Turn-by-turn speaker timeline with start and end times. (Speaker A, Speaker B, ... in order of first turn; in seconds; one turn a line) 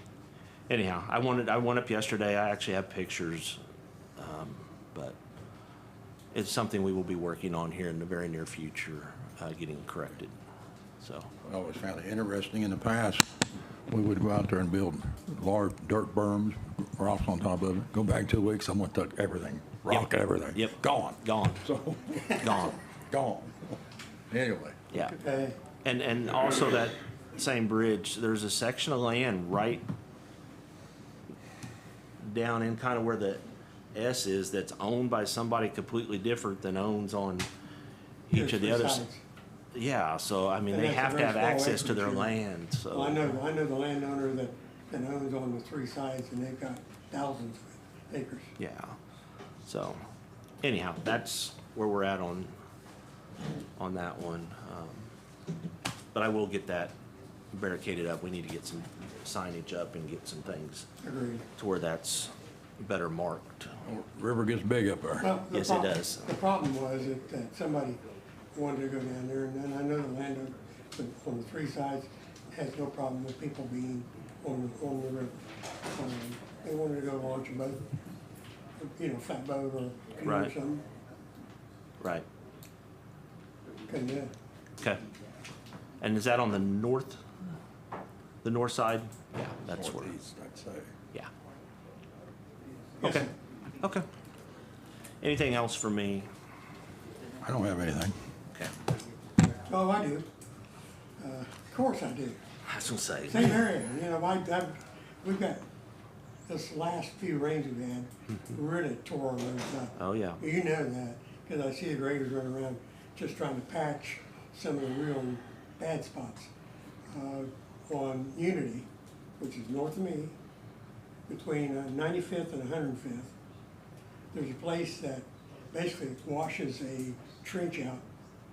Speaker A: 0.7-3.6
Speaker A: 4.2-5.2
Speaker A: 6.3-10.3
Speaker A: 11.0-11.3
Speaker B: 11.4-23.7
Speaker A: 20.5-21.6
Speaker A: 22.4-22.8
Speaker B: 24.3-24.8
Speaker C: 24.9-25.6
Speaker A: 25.8-29.9
Speaker A: 32.2-33.4
Speaker A: 33.9-37.5
Speaker A: 38.3-39.0
Speaker C: 38.3-39.2
Speaker A: 39.7-43.4
Speaker C: 40.7-42.4
Speaker C: 42.9-48.5
Speaker A: 48.6-49.0
Speaker A: 49.6-50.0
Speaker A: 50.6-52.5
Speaker A: 53.8-55.1
Speaker A: 56.1-56.9
Speaker A: 57.5-60.9
Speaker C: 61.0-61.5
Speaker A: 61.6-63.8
Speaker B: 63.8-65.3
Speaker C: 65.2-68.0
Speaker A: 65.5-66.3
Speaker C: 68.5-75.4
Speaker C: 75.9-77.8
Speaker C: 78.8-80.8
Speaker A: 80.2-80.5
Speaker A: 82.0-82.2
Speaker C: 83.9-84.3
Speaker A: 86.0-87.2
Speaker A: 88.4-90.1
Speaker B: 89.7-90.9
Speaker C: 93.0-93.3
Speaker A: 93.0-94.0
Speaker A: 95.2-96.3
Speaker B: 97.4-98.1
Speaker C: 99.7-100.3
Speaker C: 101.2-102.4
Speaker A: 102.6-103.6
Speaker C: 103.3-105.6
Speaker C: 106.5-116.5
Speaker A: 110.0-110.4
Speaker C: 117.1-118.9
Speaker C: 119.4-120.3
Speaker C: 121.3-123.3
Speaker C: 124.3-128.0